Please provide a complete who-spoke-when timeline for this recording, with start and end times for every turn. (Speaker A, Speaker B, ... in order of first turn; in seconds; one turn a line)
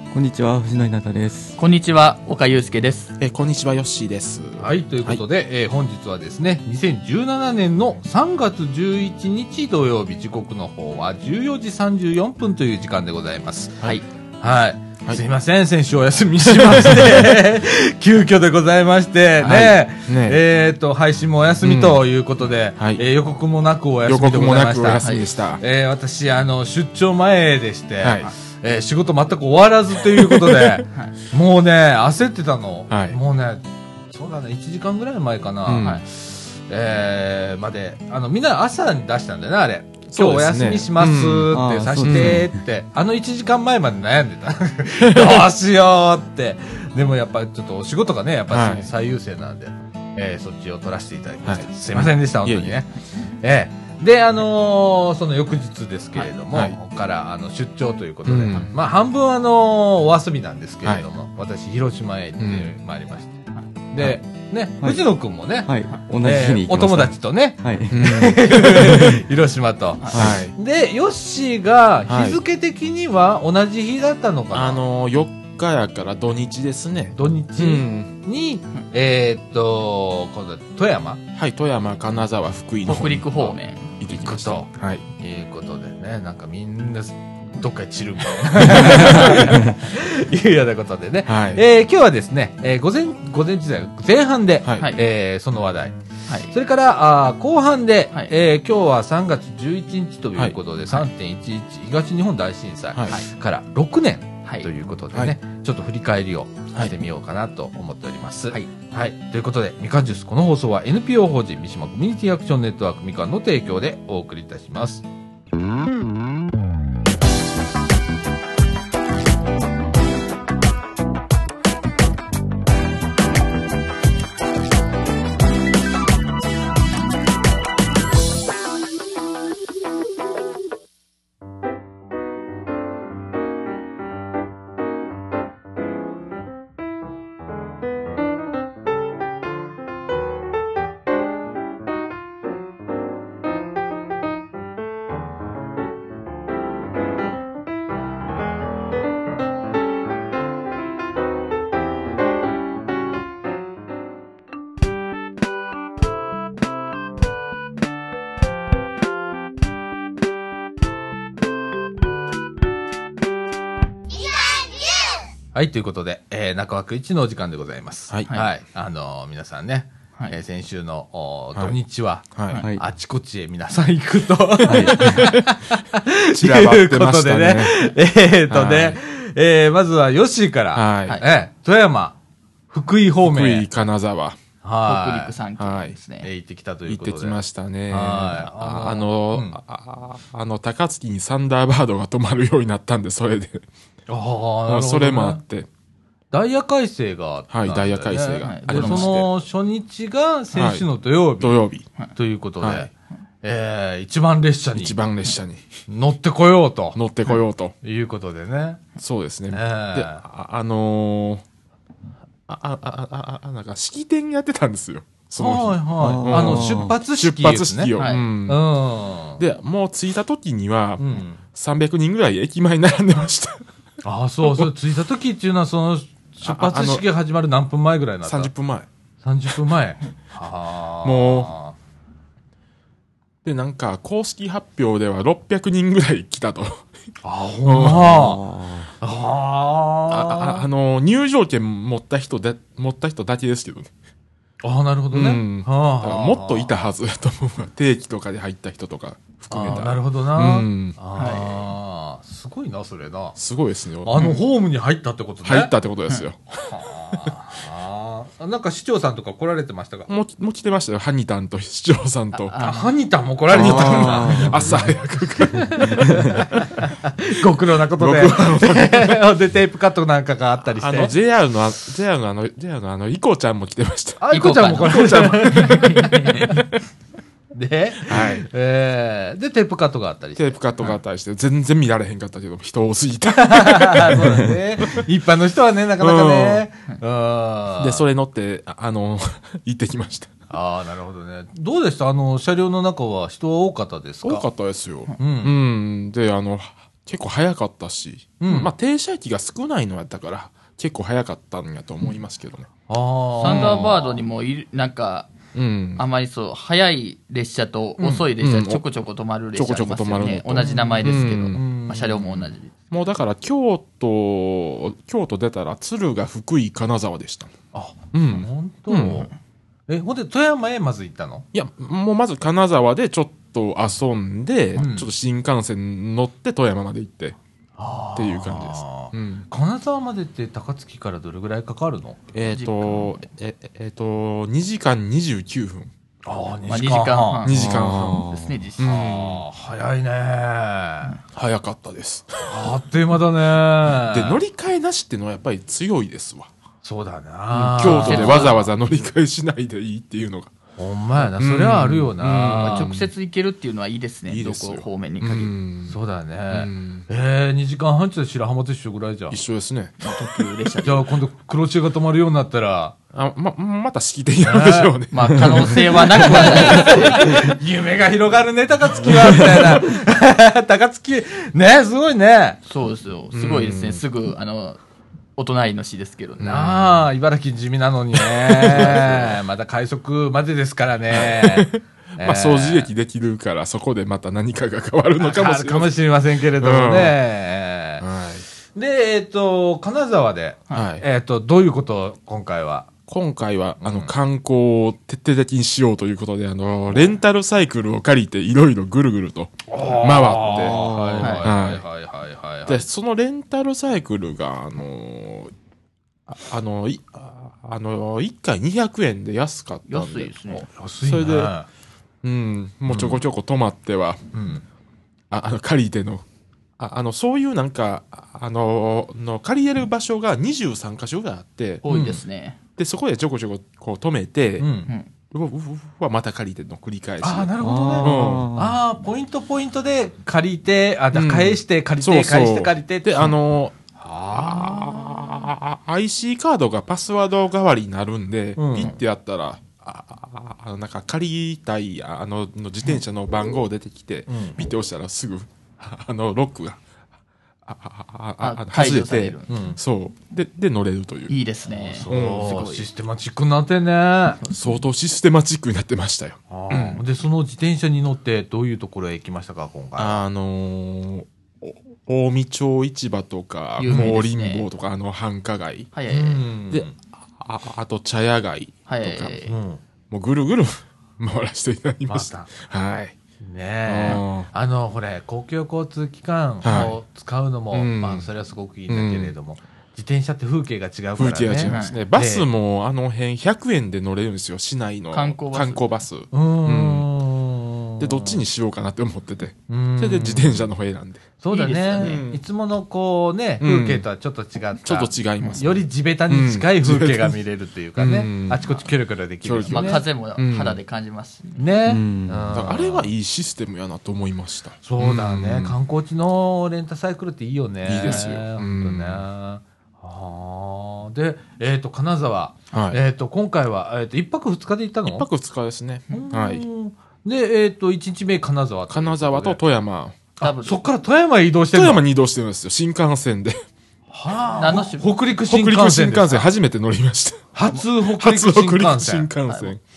Speaker A: 0.1-1.6
Speaker B: 1.6-3.1
Speaker C: 3.2-5.2
Speaker D: 4.6-25.1
Speaker C: 16.5-17.3
Speaker B: 19.4-19.7
Speaker C: 19.5-20.4
Speaker C: 21.6-22.1
Speaker C: 22.8-23.0
Speaker C: 24.1-25.6
Speaker B: 25.0-25.3
Speaker D: 25.6-74.8
Speaker C: 28.0-28.3
Speaker C: 30.2-30.8
Speaker C: 32.9-33.2
Speaker C: 35.7-36.0
Speaker C: 40.1-42.5
Speaker A: 41.5-42.5
Speaker C: 45.0-45.5
Speaker C: 48.5-48.9
Speaker C: 51.4-52.8
Speaker C: 58.3-58.7
Speaker C: 62.4-62.7
Speaker A: 65.7-69.1
Speaker C: 67.9-69.2
Speaker B: 70.0-70.3
Speaker C: 70.1-70.5
Speaker A: 70.1-70.4
Speaker C: 72.1-72.4
Speaker C: 74.5-78.1
Speaker D: 77.2-81.2
Speaker C: 81.3-85.0
Speaker B: 82.8-83.9
Speaker D: 84.1-96.0
Speaker C: 88.6-89.6
Speaker C: 91.3-91.6
Speaker C: 94.6-94.9
Speaker D: 96.5-115.0
Speaker C: 102.9-103.2
Speaker D: 165.5-182.2
Speaker C: 172.3-172.6
Speaker A: 172.5-172.8
Speaker C: 174.6-175.6
Speaker A: 174.7-175.3
Speaker C: 176.3-177.8
Speaker C: 178.5-179.0
Speaker C: 180.7-181.2
Speaker D: 182.7-183.7
Speaker C: 183.2-184.4
Speaker D: 184.6-185.3
Speaker B: 184.9-186.3
Speaker C: 185.6-186.0
Speaker D: 186.2-189.6
Speaker C: 186.9-193.7
Speaker D: 194.1-195.4
Speaker C: 194.7-195.7
Speaker D: 196.3-201.6
Speaker C: 197.5-199.3
Speaker B: 198.4-199.3
Speaker C: 200.5-200.9
Speaker C: 201.4-201.9
Speaker D: 202.2-202.9
Speaker C: 202.6-202.9
Speaker D: 203.4-205.0
Speaker C: 204.8-205.7
Speaker D: 205.9-207.0
Speaker C: 206.9-207.8
Speaker D: 207.8-208.8
Speaker C: 209.0-211.4
Speaker D: 209.5-210.2
Speaker C: 212.5-218.6
Speaker D: 215.4-217.9
Speaker A: 216.0-216.9
Speaker B: 218.0-218.2
Speaker D: 218.5-219.4
Speaker C: 219.4-223.6
Speaker D: 221.0-221.4
Speaker D: 224.0-228.5
Speaker C: 226.4-227.1
Speaker C: 228.2-228.9
Speaker D: 229.2-231.8
Speaker C: 231.0-231.5
Speaker C: 233.4-236.9
Speaker D: 237.2-240.7
Speaker C: 237.7-238.3
Speaker A: 237.8-238.9
Speaker C: 240.1-243.9
Speaker D: 244.6-246.9
Speaker C: 245.1-251.0
Speaker D: 249.5-253.4
Speaker B: 251.2-251.7
Speaker C: 253.4-254.3
Speaker D: 254.0-255.7
Speaker C: 255.4-257.3
Speaker D: 256.6-260.1
Speaker C: 260.1-262.6
Speaker B: 262.4-262.9
Speaker D: 262.6-264.9
Speaker C: 263.5-266.5
Speaker A: 263.5-264.9
Speaker B: 263.8-264.4
Speaker D: 265.4-271.1
Speaker C: 267.8-269.2
Speaker C: 270.6-275.9
Speaker D: 274.2-276.6
Speaker B: 274.3-276.7
Speaker D: 277.5-280.9
Speaker C: 278.1-278.5
Speaker C: 280.4-285.0
Speaker D: 283.4-288.0
Speaker C: 286.0-286.7
Speaker C: 287.8-290.3
Speaker D: 290.5-294.5
Speaker C: 294.2-302.7
Speaker D: 295.2-295.6
Speaker D: 298.4-298.7
Speaker D: 302.9-304.1
Speaker B: 303.4-305.3
Speaker C: 303.4-304.0
Speaker C: 305.5-306.1
Speaker B: 306.0-313.0
Speaker D: 308.0-308.3
Speaker C: 308.4-308.8
Speaker C: 309.6-311.6
Speaker D: 310.5-312.5
Speaker C: 312.9-317.5
Speaker D: 317.7-319.3
Speaker C: 318.1-319.3
Speaker D: 319.9-321.4
Speaker C: 321.5-327.4
Speaker D: 324.8-325.1
Speaker D: 327.8-332.2
Speaker C: 328.2-329.5
Speaker C: 332.3-335.9
Speaker B: 332.5-333.2
Speaker D: 336.3-337.5
Speaker B: 336.7-338.9
Speaker C: 337.4-338.2
Speaker A: 337.5-338.6
Speaker C: 338.8-339.4
Speaker D: 338.8-341.2
Speaker C: 341.3-342.6
Speaker D: 342.4-344.4
Speaker C: 344.0-346.5
Speaker D: 346.8-348.6
Speaker C: 347.7-350.5
Speaker B: 347.8-348.7
Speaker D: 350.8-352.9
Speaker C: 351.2-353.1
Speaker B: 352.5-355.5
Speaker C: 354.3-356.0
Speaker D: 355.9-359.4
Speaker C: 356.5-357.1
Speaker C: 359.3-360.5
Speaker B: 360.0-361.1
Speaker D: 360.8-363.0
Speaker C: 363.1-367.5
Speaker D: 364.4-365.0
Speaker B: 365.1-367.3
Speaker D: 366.1-372.6
Speaker C: 369.0-369.8
Speaker B: 372.7-374.8
Speaker C: 373.3-374.0
Speaker B: 375.4-376.7
Speaker C: 376.4-377.0
Speaker D: 376.4-382.9
Speaker C: 378.2-379.3
Speaker C: 381.1-386.0
Speaker D: 385.2-388.1
Speaker C: 386.6-387.2
Speaker C: 388.0-388.4
Speaker D: 388.7-392.9
Speaker C: 390.7-391.1
Speaker C: 393.1-401.8
Speaker D: 393.8-394.1
Speaker D: 399.7-402.9
Speaker A: 400.5-401.4
Speaker B: 401.2-401.5
Speaker C: 402.7-405.5
Speaker C: 406.3-410.4
Speaker B: 409.9-410.7
Speaker D: 410.5-411.7
Speaker C: 411.0-411.5
Speaker C: 412.2-414.2
Speaker D: 414.3-414.6
Speaker C: 415.3-416.2
Speaker C: 416.8-421.9
Speaker B: 421.8-422.6
Speaker D: 421.9-422.2
Speaker C: 422.8-424.7
Speaker D: 424.6-424.9
Speaker C: 425.3-428.5
Speaker D: 427.2-433.4
Speaker A: 427.6-428.8
Speaker C: 431.1-433.8
Speaker D: 434.0-435.4
Speaker C: 434.3-446.8
Speaker D: 438.6-439.0
Speaker D: 444.3-444.6
Speaker C: 447.7-451.4
Speaker B: 448.4-449.5
Speaker D: 449.5-449.8
Speaker B: 451.3-452.9
Speaker D: 451.7-454.4
Speaker C: 452.1-452.6
Speaker B: 454.4-454.8
Speaker C: 454.5-457.0
Speaker D: 456.5-460.2
Speaker C: 460.0-465.9
Speaker B: 463.8-464.7
Speaker D: 463.9-464.2
Speaker B: 465.9-466.5
Speaker D: 466.1-467.0
Speaker C: 466.7-469.5
Speaker B: 468.9-469.5
Speaker D: 469.5-469.8
Speaker C: 470.1-473.2
Speaker D: 472.1-472.5
Speaker D: 473.4-482.5
Speaker C: 473.9-474.5
Speaker C: 476.6-477.0
Speaker C: 477.7-478.3
Speaker C: 478.9-479.3
Speaker C: 481.2-487.1
Speaker B: 481.6-482.0
Speaker B: 485.1-485.9
Speaker D: 486.3-488.4
Speaker C: 488.0-491.3
Speaker D: 489.7-490.7
Speaker D: 491.4-500.0
Speaker B: 491.5-492.2
Speaker C: 492.0-492.4
Speaker C: 493.6-494.1
Speaker C: 494.9-497.4
Speaker C: 498.0-498.8
Speaker C: 499.4-500.8
Speaker B: 499.7-501.7
Speaker D: 501.6-503.1
Speaker A: 501.9-502.5
Speaker C: 502.5-505.8
Speaker D: 504.8-515.3
Speaker C: 507.9-509.3
Speaker C: 512.7-513.0
Speaker C: 515.1-516.6
Speaker D: 516.1-519.6
Speaker C: 518.9-520.2
Speaker B: 520.4-520.9
Speaker D: 520.4-522.0
Speaker C: 521.7-523.6
Speaker D: 524.1-526.5
Speaker B: 524.5-525.1
Speaker C: 525.5-529.8
Speaker D: 527.5-529.3